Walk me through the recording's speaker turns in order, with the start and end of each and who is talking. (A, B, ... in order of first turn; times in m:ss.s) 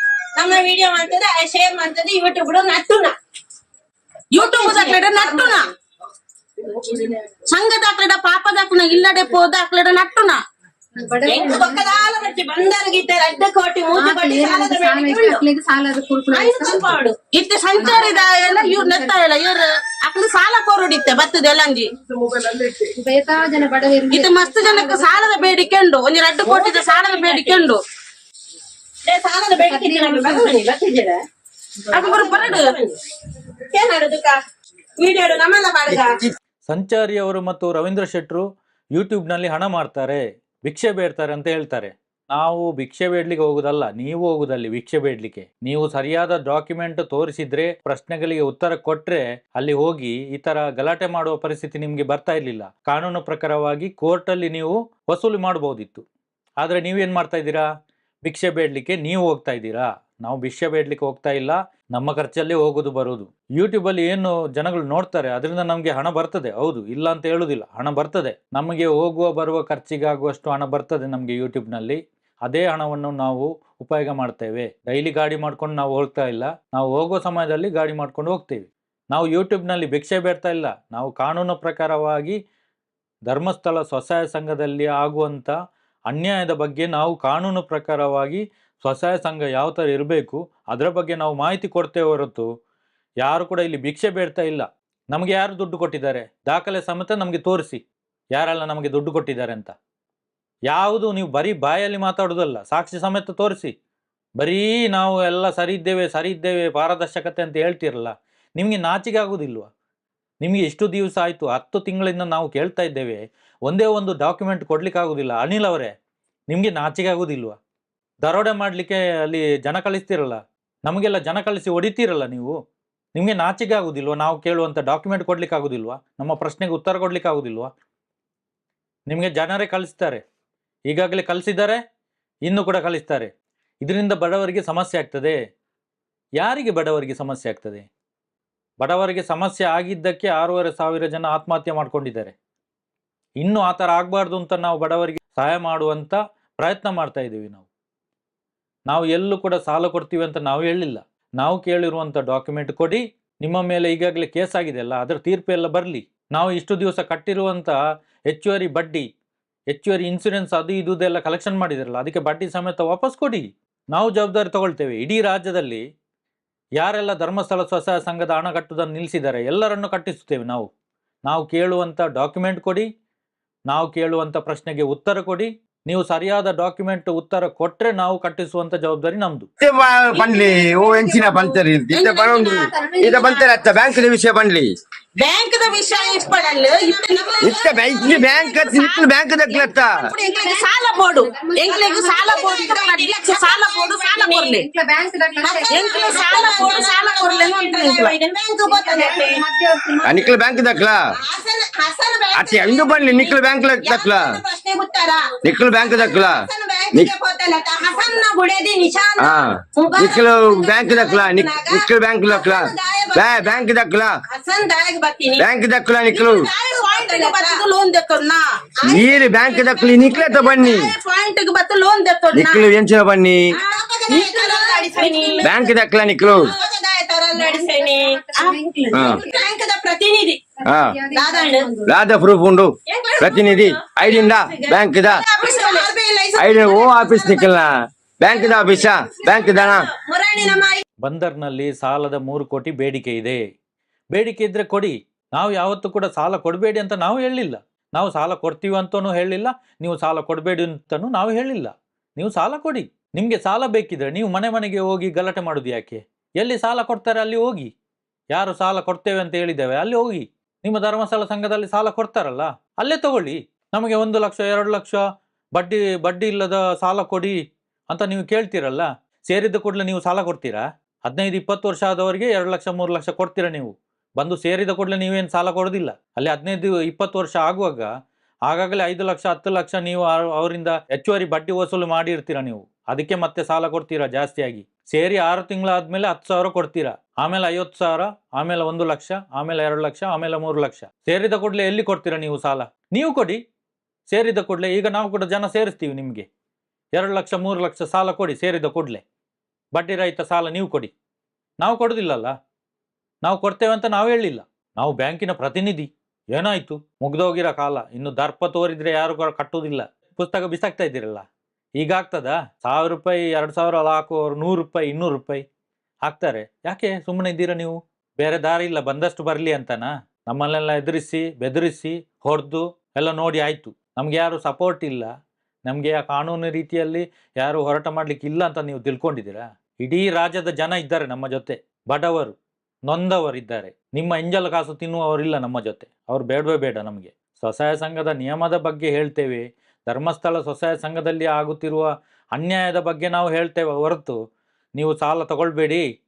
0:00.3-0:03.1 A
0:04.3-0:05.7 B
0:04.4-0:05.7 A
0:07.5-0:10.4 B
0:10.9-0:11.9 C
0:11.2-0:15.4 A
0:13.9-0:17.0 C
0:16.3-0:17.1 A
0:17.3-0:21.9 B
0:17.8-0:18.1 A
0:17.8-0:19.1 C
0:22.3-0:25.7 C
0:24.1-0:27.8 B
0:26.4-0:27.6 A
0:29.0-0:31.2 A
0:29.6-0:30.6 C
0:31.9-0:33.0 A
0:31.9-0:32.7 B
0:33.7-0:34.4 A
0:35.0-0:36.2 A
0:36.7-0:56.0 D
0:56.6-0:57.7 D
0:58.2-1:22.4 D
1:23.3-1:25.5 D
1:26.1-1:32.5 D
1:33.2-1:37.8 D
1:38.3-1:39.7 D
1:40.7-1:43.7 D
1:44.4-1:49.7 D
1:50.4-1:55.9 D
1:56.5-1:57.6 D
1:58.2-2:02.5 D
2:03.1-2:07.7 D
2:09.1-2:10.2 D
2:10.9-2:11.8 D
2:12.4-2:13.3 D
2:13.8-2:15.4 D
2:16.4-2:17.8 D
2:18.8-2:22.3 D
2:23.4-2:27.6 D
2:28.9-2:37.8 D
2:38.3-2:39.0 D
2:39.7-2:45.8 D
2:46.8-2:50.7 D
2:51.2-2:52.9 D
2:53.7-2:59.5 D
2:59.6-3:04.7 E
3:00.2-3:01.5 C
3:01.9-3:02.7 B
3:02.5-3:03.4 C
3:05.2-3:07.0 B
3:05.7-3:08.7 A
3:07.4-3:10.1 E
3:08.5-3:14.6 B
3:10.2-3:12.7 C
3:11.9-3:14.5 A
3:14.5-3:16.7 C
3:15.4-3:19.4 A
3:15.7-3:18.2 B
3:18.6-3:20.3 C
3:20.0-3:21.0 E
3:21.1-3:33.6 A
3:22.3-3:24.2 E
3:25.4-3:27.1 E
3:29.2-3:34.1 E
3:34.3-3:35.4 A
3:35.4-3:36.5 E
3:36.1-3:37.6 A
3:36.9-3:38.4 B
3:38.8-3:40.6 A
3:38.8-3:40.9 E
3:40.6-3:42.7 B
3:42.3-3:43.4 E
3:43.5-3:48.2 A
3:44.1-3:45.4 B
3:45.4-3:46.5 E
3:47.3-3:49.5 C
3:48.9-3:49.2 E
3:48.9-3:50.4 A
3:50.6-3:51.9 C
3:50.7-3:50.9 E
3:51.1-3:51.7 A
3:51.8-3:55.2 E
3:52.9-3:57.6 A
3:55.4-3:55.8 B
3:55.5-3:55.9 C
3:56.4-3:59.8 E
3:58.3-4:00.8 A
4:01.0-4:03.4 D
4:04.1-4:17.7 D
4:18.3-4:25.0 D
4:25.5-4:27.4 D
4:27.9-4:37.9 D
4:38.5-4:53.4 D
4:54.1-4:56.2 D
4:56.9-4:59.0 D
4:59.7-5:00.9 D
5:01.6-5:02.3 D
5:03.2-5:11.2 D
5:11.8-5:15.4 D
5:16.0-5:25.1 D
5:25.6-5:32.4 D
5:32.9-5:44.2 D
5:44.8-5:45.8 D